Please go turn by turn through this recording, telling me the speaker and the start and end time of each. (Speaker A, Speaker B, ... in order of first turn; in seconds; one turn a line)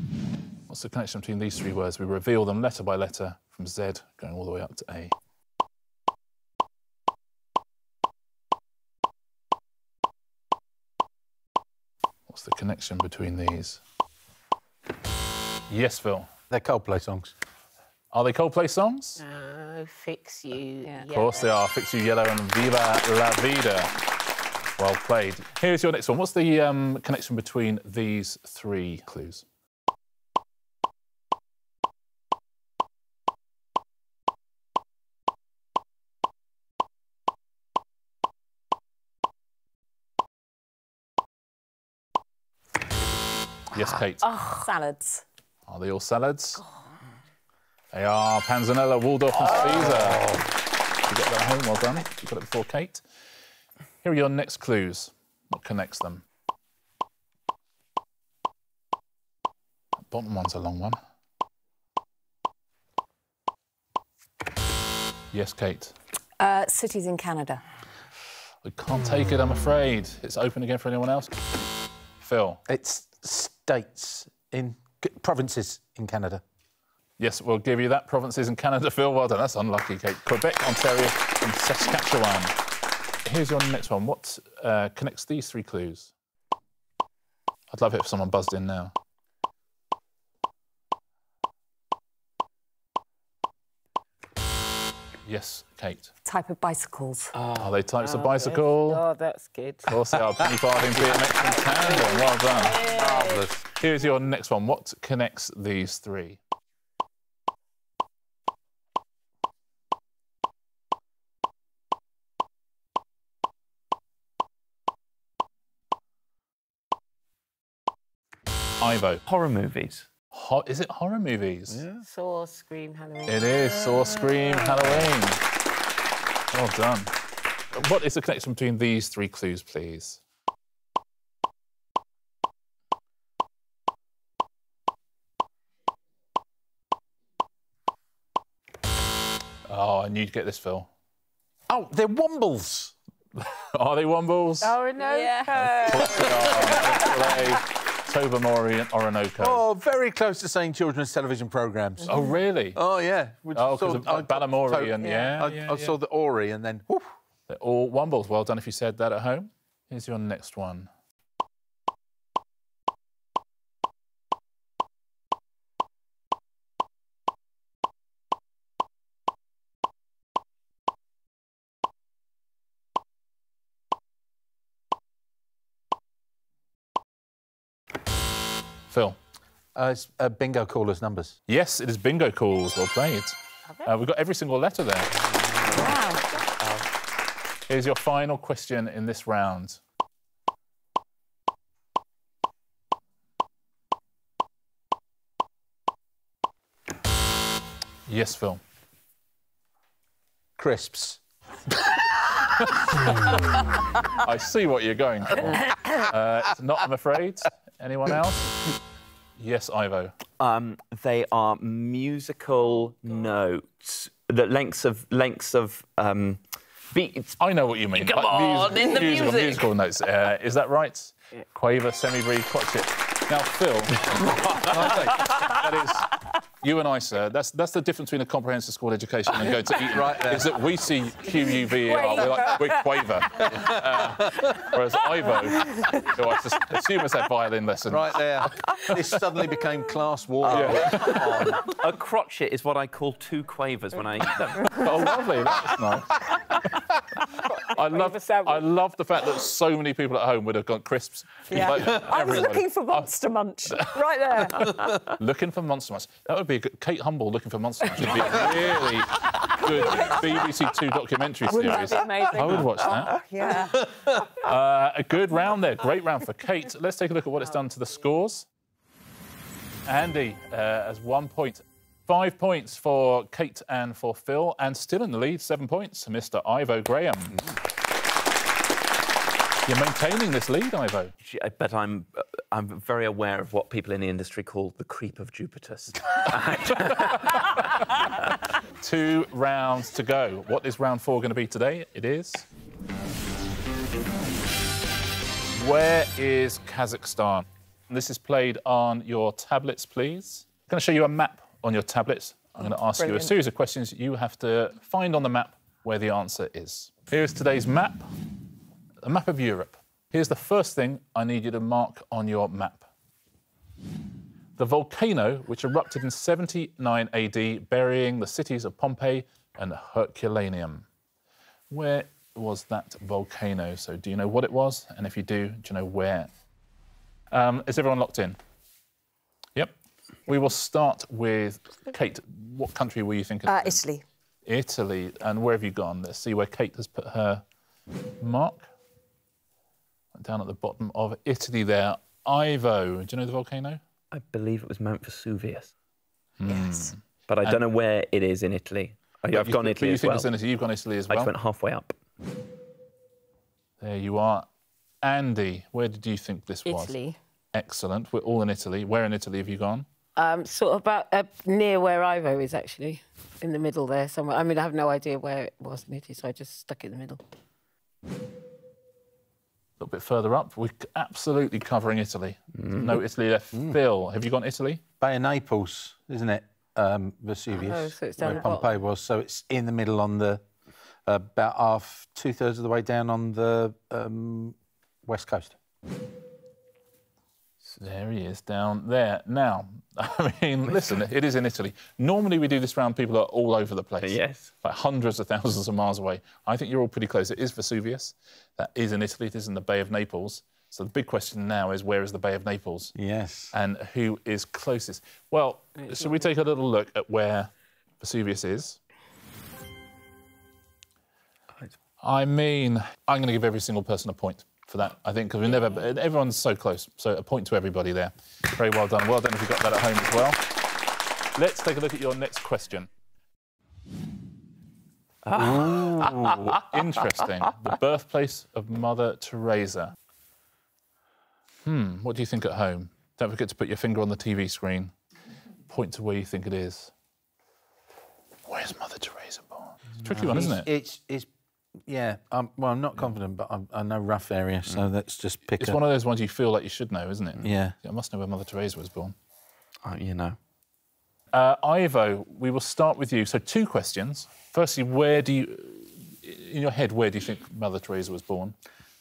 Speaker A: 0.7-5.1
Speaker A: 12.3-13.8
Speaker A: 15.7-16.3
Speaker B: 16.5-17.3
Speaker A: 18.1-19.2
Speaker C: 19.2-21.5
Speaker A: 21.1-23.9
Speaker A: 24.8-29.4
Speaker A: 43.7-44.3
Speaker D: 44.2-45.2
Speaker A: 45.7-46.6
Speaker A: 47.9-50.2
Speaker B: 49.4-50.5
Speaker A: 51.1-53.0
Speaker A: 54.0-56.2
Speaker A: 60.1-61.0
Speaker A: 65.3-65.9
Speaker D: 66.4-67.6
Speaker A: 68.6-71.3
Speaker A: 72.2-72.6
Speaker B: 72.7-76.4
Speaker A: 77.2-82.5
Speaker A: 83.2-86.1
Speaker A: 87.7-88.9
Speaker A: 95.2-96.1
Speaker D: 96.2-97.4
Speaker A: 97.5-99.0
Speaker C: 98.0-100.0
Speaker A: 99.9-102.8
Speaker B: 100.1-101.5
Speaker C: 101.3-103.4
Speaker B: 102.8-103.7
Speaker A: 103.8-106.4
Speaker A: 118.8-119.2
Speaker E: 119.2-120.1
Speaker A: 120.3-121.8
Speaker B: 121.7-122.0
Speaker C: 122.0-123.6
Speaker A: 123.2-125.4
Speaker A: 126.5-127.1
Speaker A: 127.7-130.2
Speaker A: 139.7-140.9
Speaker B: 141.7-142.9
Speaker A: 143.3-144.8
Speaker C: 144.6-146.5
Speaker D: 145.0-146.3
Speaker A: 145.5-149.6
Speaker B: 149.4-152.2
Speaker A: 152.0-152.8
Speaker B: 152.7-157.1
Speaker A: 153.5-155.9
Speaker D: 155.0-155.4
Speaker A: 157.5-160.9
Speaker A: 178.9-179.2
Speaker B: 179.7-181.4
Speaker A: 181.5-185.1
Speaker E: 185.1-186.9
Speaker D: 185.7-186.3
Speaker A: 187.7-189.8
Speaker A: 198.1-198.6
Speaker B: 200.6-201.2
Speaker A: 202.6-202.9
Speaker A: 204.1-208.6
Speaker A: 209.4-210.1
Speaker E: 210.4-217.4
Speaker A: 217.4-239.2
Speaker E: 217.9-219.7
Speaker B: 229.7-230.6
Speaker C: 231.7-232.8
Speaker B: 233.4-234.7
Speaker B: 237.9-241.6
Speaker E: 240.4-245.1
Speaker A: 240.5-241.3
Speaker A: 244.7-246.8
Speaker A: 247.6-253.1
Speaker C: 247.7-248.7
Speaker D: 251.5-255.0
Speaker A: 253.7-263.2
Speaker C: 261.5-262.8
Speaker D: 261.8-263.9
Speaker E: 262.4-263.0
Speaker B: 263.4-264.4
Speaker A: 264.3-268.4
Speaker A: 269.9-277.4
Speaker A: 279.6-281.1
Speaker E: 281.2-288.3
Speaker A: 286.8-288.0
Speaker A: 288.8-292.4
Speaker A: 295.5-308.1
Speaker D: 302.6-303.3
Speaker A: 309.0-312.9
Speaker A: 314.6-320.9
Speaker A: 321.7-326.3
Speaker A: 327.3-328.4
Speaker A: 330.3-333.8
Speaker D: 333.5-334.0
Speaker A: 334.4-337.4
Speaker A: 338.2-338.7
Speaker A: 340.1-343.8
Speaker E: 344.1-345.7
Speaker A: 346.4-347.6
Speaker E: 347.3-350.3
Speaker A: 349.3-351.3
Speaker E: 351.1-352.0
Speaker A: 353.8-354.5
Speaker A: 355.0-356.9
Speaker C: 356.6-357.2
Speaker A: 357.5-359.9
Speaker C: 360.1-367.2
Speaker A: 369.8-374.8
Speaker B: 375.0-380.4
Speaker C: 377.5-378.8
Speaker B: 381.1-385.6
Speaker A: 387.6-402.9
Speaker E: 394.0-394.5
Speaker B: 402.9-403.5
Speaker A: 403.5-408.8
Speaker A: 412.0-420.4
Speaker A: 421.3-422.9
Speaker E: 425.2-426.8
Speaker A: 425.5-429.9
Speaker A: 431.6-434.9
Speaker A: 435.7-436.9
Speaker A: 438.5-440.7
Speaker B: 440.1-441.3
Speaker B: 441.9-445.8
Speaker A: 445.6-449.1
Speaker B: 447.4-447.8
Speaker E: 449.8-450.4
Speaker A: 451.3-458.5